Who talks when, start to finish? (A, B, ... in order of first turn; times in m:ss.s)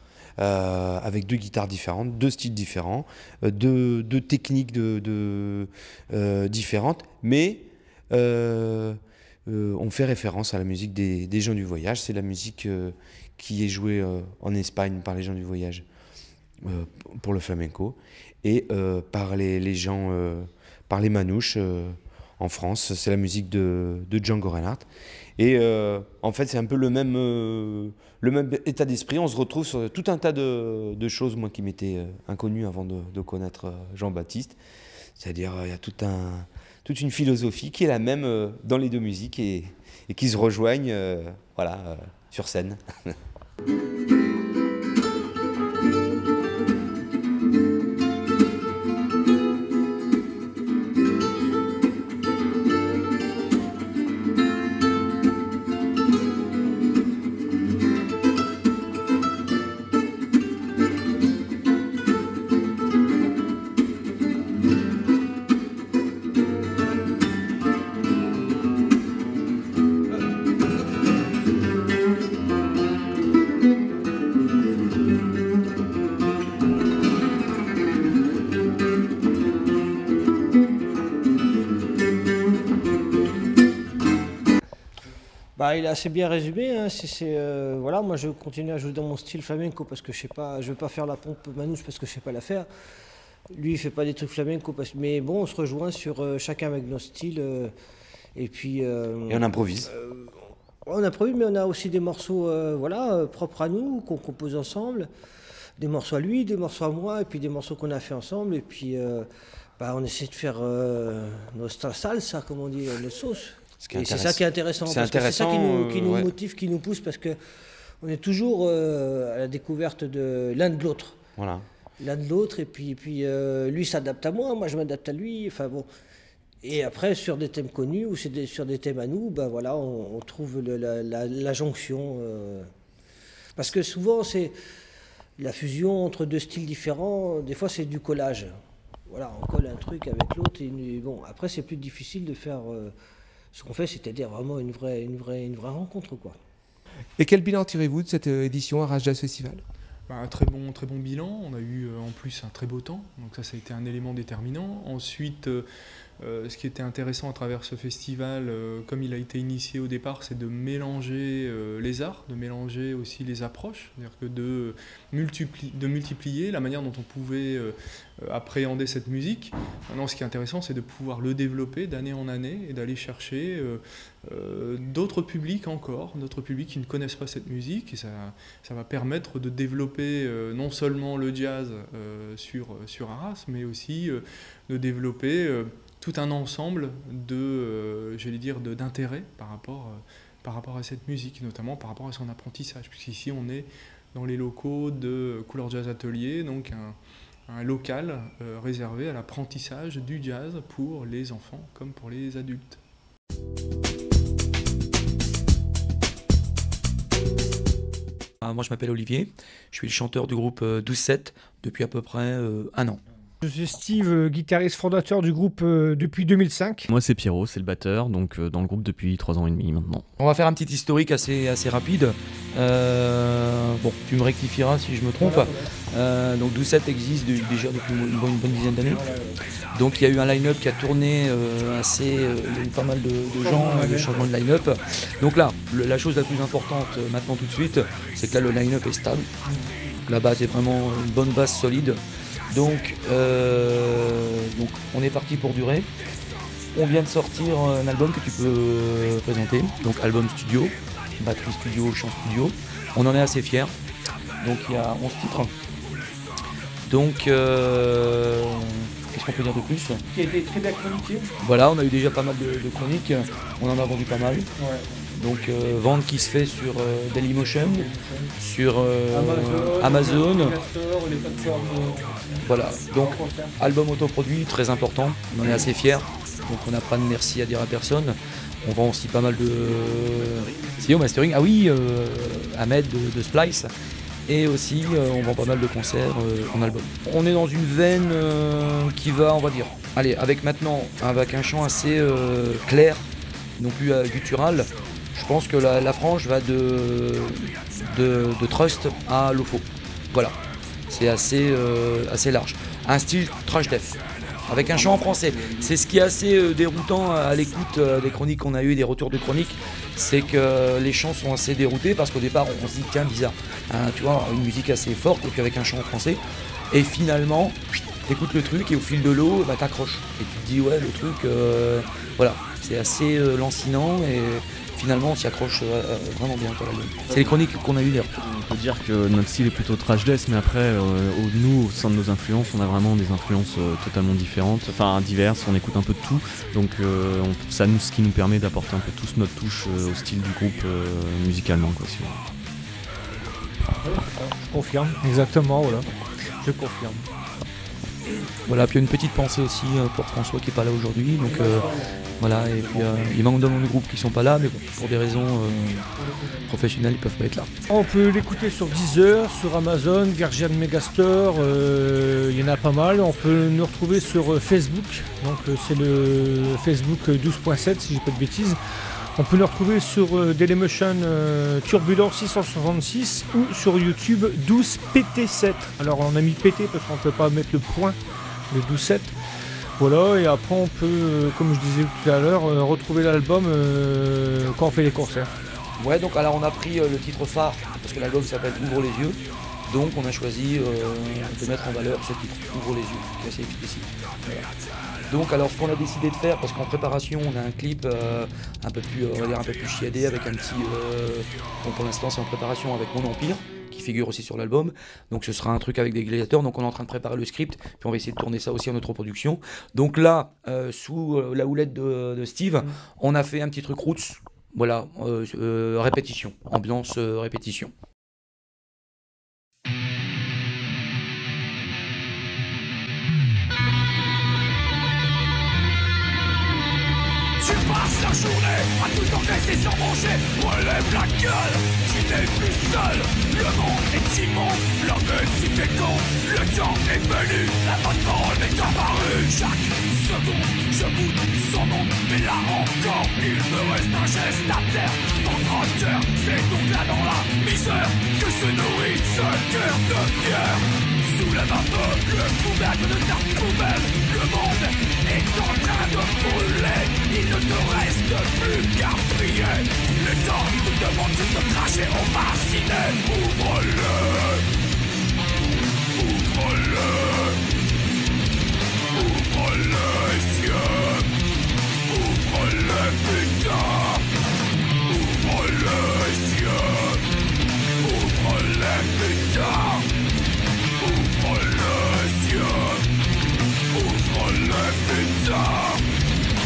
0:00.4-0:15.8 A
0:16.6-0:34.6 A
0:35.2-0:42.8 A
1:25.6-1:32.7 B
1:33.5-1:37.7 B
1:38.4-1:45.1 B
1:39.3-1:39.9 A
1:45.8-1:49.3 B
1:49.8-1:57.4 B
1:53.9-1:56.3 A
1:58.0-2:01.2 B
2:01.4-2:01.7 A
2:02.0-2:05.9 B
2:06.6-2:12.7 B
2:13.6-2:14.6 B
2:15.4-2:18.6 B
2:19.1-2:22.9 B
2:23.5-2:26.4 B
2:27.2-2:29.6 C
2:30.1-2:35.7 D
2:36.2-3:17.0 D
3:17.5-3:22.8 D
3:28.4-3:33.0 E
3:33.4-3:36.9 F
3:36.9-3:40.1 G
3:40.2-3:49.1 E
3:45.2-3:45.5 F
3:49.0-3:49.3 F
3:49.7-3:59.3 E
3:53.4-3:54.3 F
4:00.0-4:05.9 E
4:06.7-4:13.7 E
4:14.4-4:15.5 E
4:16.9-4:20.0 E
4:20.1-4:21.3 F
4:21.4-4:24.5 E
4:24.6-4:24.9 F
4:25.2-4:30.6 E
4:27.7-4:28.3 F
4:29.1-4:33.6 F
4:32.4-4:43.7 E
4:39.8-4:41.0 G
4:44.3-4:53.1 E
4:53.6-5:00.4 E
5:00.9-5:28.1 E
5:27.1-5:27.4 G
5:28.2-5:42.2 G
5:43.9-5:47.0 F
5:48.5-5:55.9 E
5:51.2-5:51.8 F
5:56.4-5:57.5 E
5:57.7-6:08.6 F
6:09.2-6:18.0 F
6:18.5-6:19.2 F
6:19.8-6:25.3 F
6:25.8-6:34.5 E
6:35.1-6:57.7 E
7:07.4-7:44.4 H
7:46.0-7:47.4 H
7:48.9-7:51.1 H
7:51.9-7:54.0 H
7:54.9-7:57.0 H
7:57.8-7:59.9 H
8:00.8-8:02.9 H
8:03.7-8:05.8 H